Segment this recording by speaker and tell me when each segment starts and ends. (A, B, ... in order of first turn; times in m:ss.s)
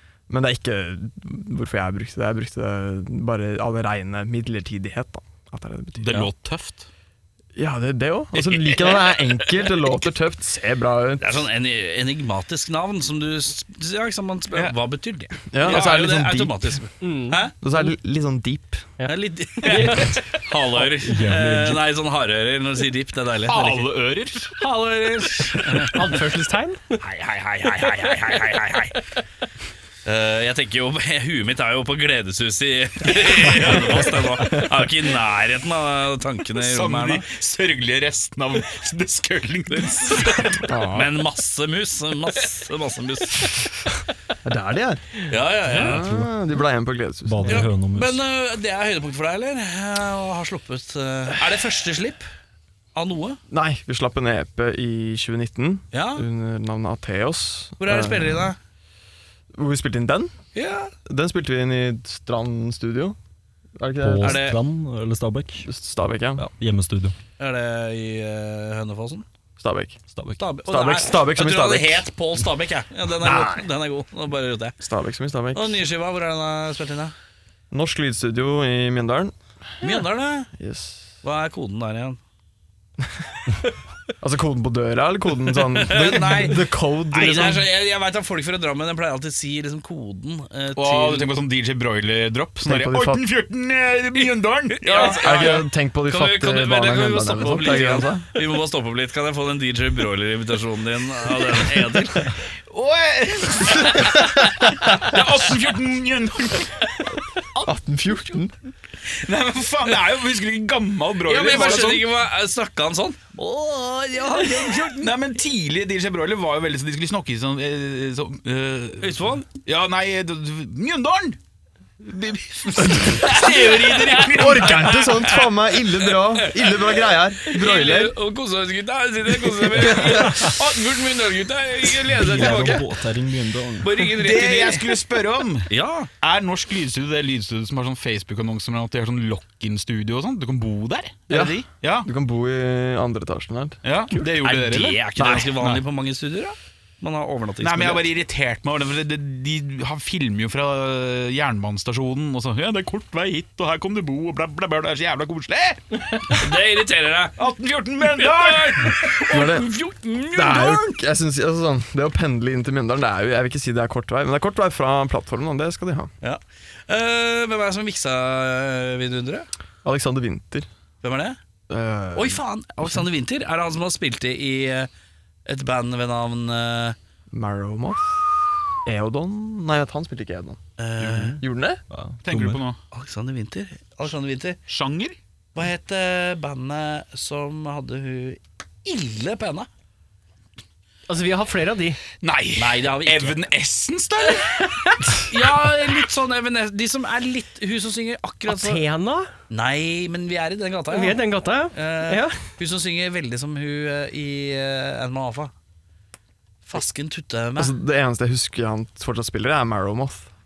0:00.3-0:06.3 A
0:06.0-0:06.8 B
0:07.6-0:11.5 A
0:08.3-0:10.0 C
0:11.2-0:17.5 C
0:15.5-0:16.8 A
0:17.0-0:17.9 D
0:17.6-0:18.9 A
0:19.0-0:20.2 D
0:19.1-0:23.9 C
0:19.6-0:20.1 B
0:21.0-0:21.8 E
0:23.5-0:24.6 B
0:24.6-0:26.0 C
0:25.9-0:27.0 D
0:27.0-0:29.0 C
0:30.0-0:37.2 C
0:34.3-0:34.8 A
0:36.6-0:40.6 B
0:39.7-0:43.6 C
0:40.5-0:41.1 A
0:44.4-0:47.7 A
0:45.3-0:46.0 C
0:45.8-0:46.3 E
0:47.2-0:48.2 E
0:47.4-0:52.2 C
0:52.9-0:53.4 C
0:53.5-0:58.5 A
0:55.9-0:56.2 C
0:57.8-0:58.6 C
0:59.5-1:00.3 A
1:00.5-1:00.9 C
1:01.0-1:03.2 A
1:03.8-1:04.5 A
1:04.0-1:05.7 E
1:04.2-1:04.6 C
1:05.6-1:06.4 A
1:06.4-1:07.1 E
1:07.4-1:09.2 C
1:09.6-1:10.0 A
1:10.1-1:10.4 E
1:10.4-1:14.7 C
1:10.6-1:12.0 A
1:13.2-1:13.6 A
1:14.8-1:15.8 A
1:15.5-1:17.1 C
1:17.7-1:19.3 A
1:19.8-1:20.5 C
1:20.6-1:21.1 A
1:21.2-1:22.2 C
1:24.2-1:27.6 A
1:25.7-1:31.3 C
1:30.8-1:35.6 B
1:32.6-1:33.2 A
1:34.8-1:42.4 C
1:35.2-1:38.3 A
1:42.7-1:46.9 B
1:43.8-1:44.3 C
1:47.6-1:48.5 A
1:49.0-1:52.1 B
1:51.2-1:55.1 C
1:54.9-2:01.4 B
1:59.0-1:59.5 C
2:02.0-2:05.3 B
2:03.1-2:12.9 C
2:04.3-2:08.1 A
2:09.4-2:10.3 A
2:12.1-2:14.0 E
2:13.8-2:15.0 C
2:14.1-2:15.7 B
2:15.7-2:16.1 C
2:16.2-2:22.1 B
2:21.3-2:23.8 A
2:23.8-2:25.8 B
2:24.4-2:28.0 C
2:27.6-2:36.4 B
2:36.3-2:37.4 C
2:37.4-2:39.2 B
2:38.0-2:41.0 C
2:39.3-2:39.7 A
2:40.3-2:46.1 A
2:46.2-2:49.5 C
2:49.8-2:50.7 A
2:51.0-2:51.4 C
2:51.7-2:52.4 A
2:52.1-2:54.9 C
2:55.4-2:57.0 C
2:57.3-2:58.2 A
2:58.8-3:00.6 A
3:00.8-3:01.4 C
3:01.4-3:01.8 A
3:01.9-3:02.6 E
3:02.2-3:02.8 B
3:02.9-3:04.6 C
3:04.7-3:05.2 B
3:05.5-3:09.7 C
3:11.1-3:12.0 D
3:12.2-3:14.6 B
3:12.6-3:13.4 C
3:15.1-3:18.8 C
3:18.5-3:19.3 D
3:19.5-3:25.5 C
3:20.9-3:22.4 D
3:26.6-3:27.7 C
3:27.6-3:30.3 A